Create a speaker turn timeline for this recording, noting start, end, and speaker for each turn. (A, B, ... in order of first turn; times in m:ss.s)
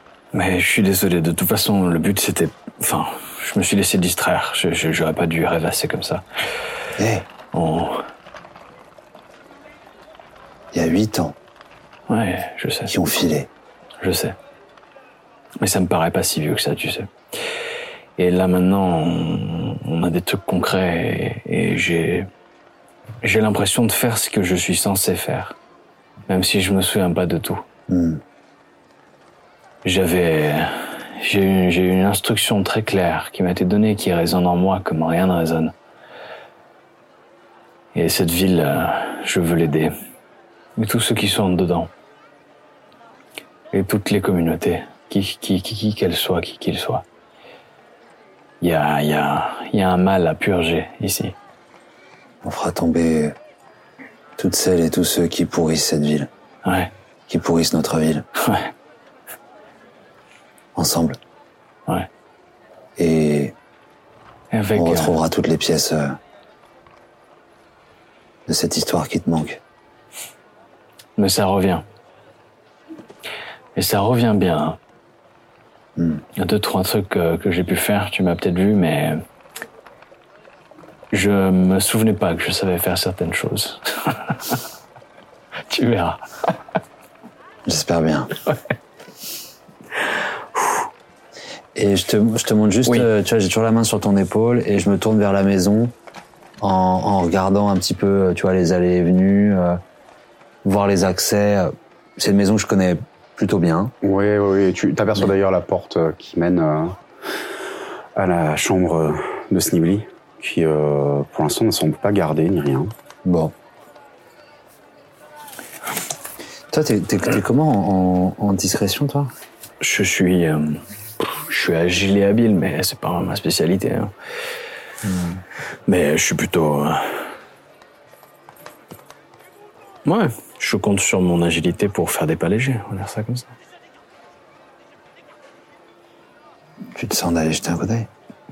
0:00.3-0:06.2 A
0:07.0-0:07.3 B
0:07.5-0:08.0 A
0:10.7-0:11.4 B
0:12.1-0:13.0 A
0:12.9-0:13.5 B
0:14.0-0:14.4 A
0:15.6-0:17.1 A
0:18.2-0:22.3 A
0:23.2-0:25.6 A
0:26.3-0:27.6 A
0:27.9-0:28.2 B
0:29.8-0:35.7 A
0:37.9-0:39.9 A
0:40.8-0:41.9 A
0:43.7-0:47.0 A
0:48.6-0:51.4 A
0:52.4-0:53.4 B
0:54.4-0:56.3 B
0:56.6-0:56.9 A
0:57.3-0:58.3 B
0:58.4-0:58.7 A
1:00.8-1:01.2 B
1:03.0-1:03.6 B
1:04.5-1:05.2 A
1:04.7-1:06.2 B
1:08.5-1:09.6 B
1:11.2-1:11.8 A
1:13.8-1:14.8 A
1:16.0-1:16.2 B
1:16.4-1:19.2 A
1:21.1-1:24.6 A
1:25.7-1:26.5 A
1:27.7-1:28.3 B
1:31.8-1:35.9 B
1:36.6-1:39.8 B
1:40.6-1:43.9 B
1:44.0-1:47.0 C
1:48.2-1:52.9 C
1:53.2-1:53.5 B
1:56.7-1:59.3 B
1:59.8-2:04.1 A
2:05.0-2:05.4 B
2:05.9-2:07.3 A
2:10.0-2:13.5 A
2:17.0-2:18.1 B